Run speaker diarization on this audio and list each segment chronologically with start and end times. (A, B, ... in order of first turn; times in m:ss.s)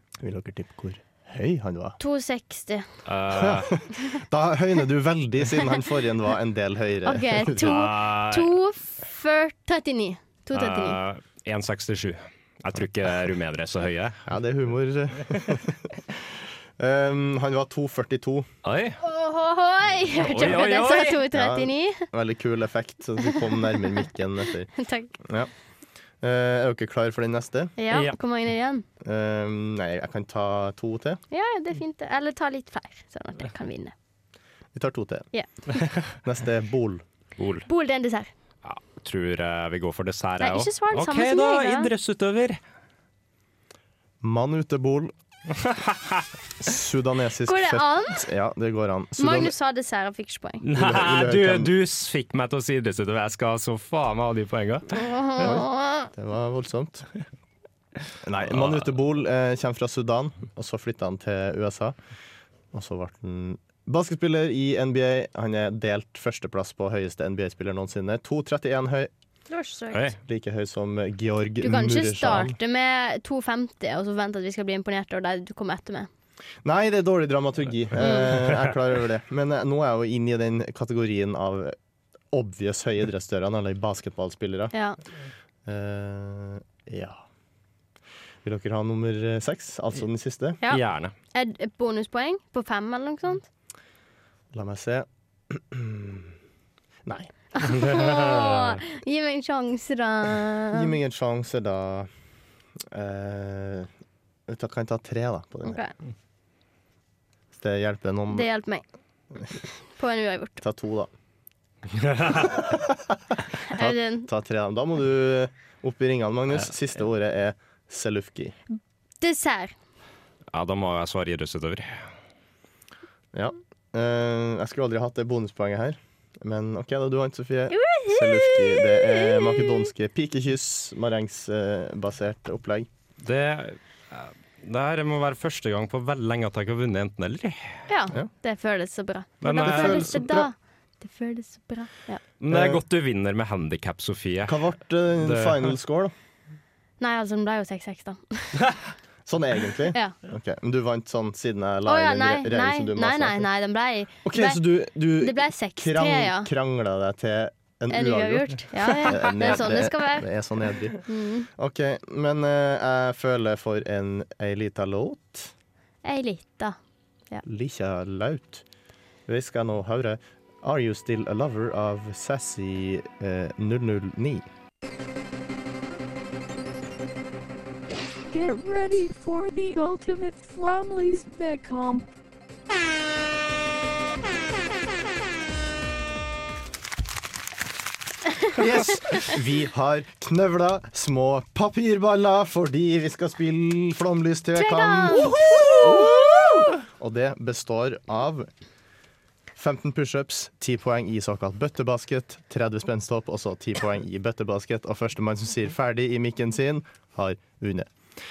0:00.2-0:02.0 A
0:02.0-0:02.8 B
0:03.0-0:03.7 C
0:03.3-0:07.7 A
0:07.0-0:11.0 B
0:07.6-0:08.5 C
0:10.5-0:14.2 C
0:14.2-0:18.5 A
0:18.6-0:19.0 C
0:19.0-0:22.1 B
0:20.2-0:21.2 C
0:21.3-0:25.5 A
0:23.3-0:24.1 B
0:24.7-0:25.1 B
0:26.2-0:27.7 A
0:27.8-0:28.8 B
0:29.0-0:31.2 A
0:31.3-0:33.9 B
0:34.7-0:35.3 A
0:36.2-0:37.0 A
0:37.4-0:37.6 C
0:37.7-0:38.3 B
0:38.6-0:42.6 C
0:40.4-0:41.9 B
0:44.2-0:45.1 A
0:45.6-0:46.2 C
0:46.6-0:49.5 A
0:47.4-0:48.3 B
0:49.2-0:50.6 B
0:50.6-0:55.0 C
0:50.7-0:51.7 A
0:54.9-0:56.1 B
0:55.4-0:57.1 A
0:58.2-1:01.9 A
0:58.4-0:58.8 C
1:02.7-1:09.1 A
1:09.5-1:10.1 B
1:10.2-1:12.5 A
1:11.6-1:16.1 B
1:16.6-1:21.8 A
1:18.0-1:18.3 B
1:22.3-1:24.7 A
1:24.7-1:25.0 B
1:25.6-1:27.2 A
1:28.4-1:30.6 A
1:30.7-1:31.1 C
1:31.3-1:33.4 B
1:34.5-1:36.3 A
1:37.0-1:37.3 A
1:37.6-1:40.9 B
1:37.7-1:38.7 C
1:40.7-1:42.1 A
1:42.9-1:43.9 A
1:44.5-1:45.8 A
1:45.6-1:45.9 B
1:47.5-1:48.5 A
1:48.3-1:48.8 B
1:49.9-1:50.6 B
1:50.6-1:51.1 A
1:52.0-1:52.4 C
1:52.4-1:58.6 A
1:53.7-1:54.3 B
1:59.2-1:59.7 B
2:00.5-2:01.9 C
2:03.3-2:12.9 A
2:07.7-2:09.9 B
2:13.2-2:17.7 C
2:17.9-2:22.2 B
2:19.4-2:20.2 C
2:19.5-2:20.5 A
2:22.4-2:24.6 C
2:22.5-2:22.8 A
2:24.5-2:26.1 A
2:25.2-2:25.7 C
2:27.0-2:28.5 B
2:29.2-2:33.5 A
2:31.8-2:34.6 B
2:34.2-2:41.0 A
2:35.2-2:36.5 B
2:37.9-2:40.2 B
2:41.0-2:41.5 B
2:41.5-2:45.5 A
2:46.0-2:46.8 B
2:47.4-2:48.6 A
2:49.3-2:54.4 A
2:58.3-3:02.1 D
3:08.5-3:18.5 A
3:14.6-3:16.7 B
3:19.6-3:27.9 A